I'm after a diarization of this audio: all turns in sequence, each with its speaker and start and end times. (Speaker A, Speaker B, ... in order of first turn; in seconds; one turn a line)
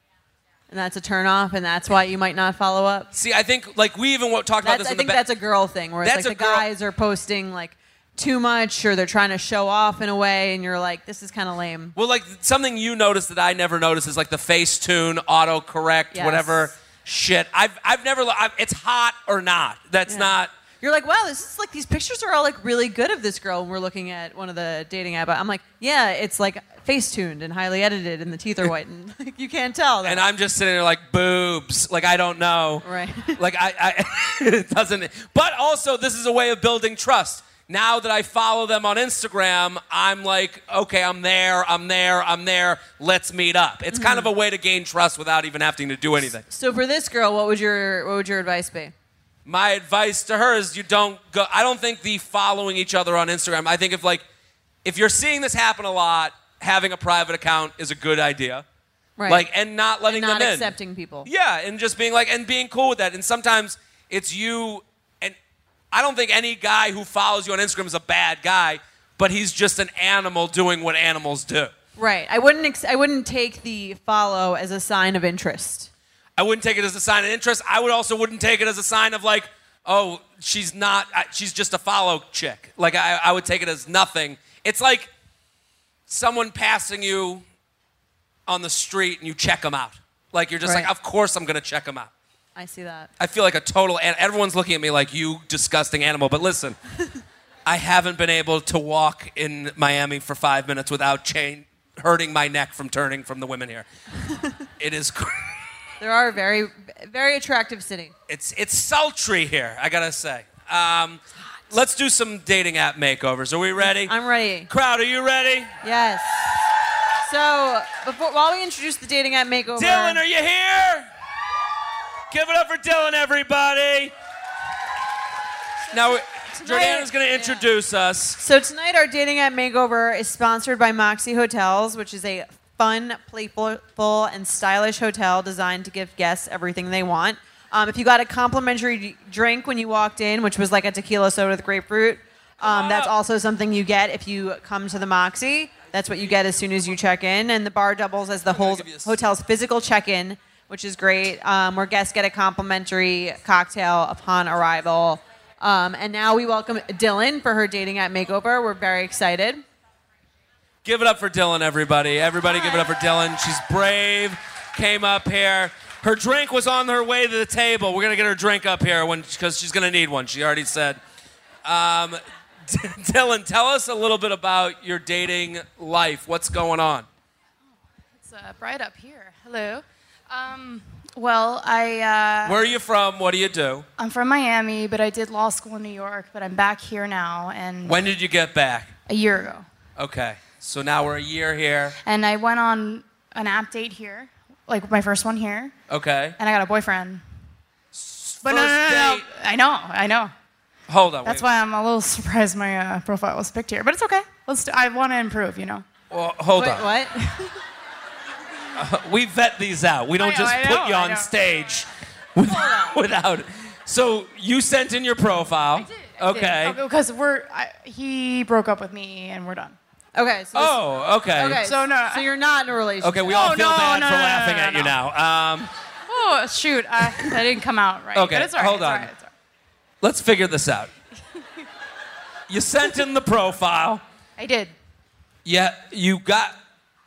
Speaker A: 0.7-3.1
Speaker B: 3.1-5.2
Speaker A: 4.6-12.0
Speaker B: 6.0-6.7
Speaker B: 12.0-20.5
Speaker A: 16.1-16.7
Speaker A: 20.1-30.3
Speaker B: 30.0-32.8
Speaker A: 32.8-33.4
Speaker B: 33.4-46.4
Speaker A: 43.9-44.3
Speaker A: 46.5-48.9
Speaker B: 49.5-54.2
Speaker B: 54.9-58.6
Speaker A: 59.2-59.5
Speaker B: 59.3-60.7
Speaker A: 60.0-61.3
Speaker B: 61.3-65.4
Speaker B: 65.9-71.7
Speaker A: 72.0-75.9
Speaker B: 76.4-85.1
Speaker B: 86.1-87.4
Speaker B: 88.5-92.1
Speaker A: 90.6-90.9
Speaker A: 92.6-93.1
Speaker B: 93.2-96.8
Speaker B: 97.7-103.9
Speaker A: 104.2-104.6
Speaker B: 104.8-105.7
Speaker A: 106.0-108.2
Speaker B: 108.3-114.1
Speaker A: 113.8-114.7
Speaker B: 114.7-115.7
Speaker A: 115.8-116.5
Speaker A: 117.2-120.2
Speaker B: 119.8-121.1
Speaker B: 122.3-124.1
Speaker B: 125.9-128.4
Speaker A: 126.6-127.6
Speaker A: 128.4-159.6
Speaker B: 142.6-143.1
Speaker B: 148.5-149.1
Speaker B: 160.8-171.0
Speaker A: 162.5-162.9
Speaker B: 171.7-177.1
Speaker C: 178.2-182.7
Speaker B: 182.4-183.8
Speaker C: 184.0-188.0
Speaker B: 187.9-188.9
Speaker C: 189.1-189.7
Speaker B: 190.0-192.0
Speaker C: 192.1-195.8
Speaker B: 195.9-196.4
Speaker C: 196.4-197.2
Speaker B: 197.9-199.2
Speaker C: 198.4-200.3
Speaker B: 200.9-201.4
Speaker C: 201.2-205.8
Speaker B: 206.1-206.9
Speaker A: 206.5-207.6
Speaker B: 208.8-216.8
Speaker C: 210.2-211.3
Speaker C: 215.8-219.8
Speaker A: 220.2-220.8
Speaker B: 220.6-221.6
Speaker A: 221.3-223.5
Speaker C: 221.6-222.3
Speaker B: 223.0-225.7
Speaker C: 223.3-224.9
Speaker C: 226.1-229.3
Speaker B: 228.2-229.1
Speaker B: 230.0-230.9
Speaker B: 232.5-234.0
Speaker C: 234.4-234.7
Speaker B: 235.4-236.6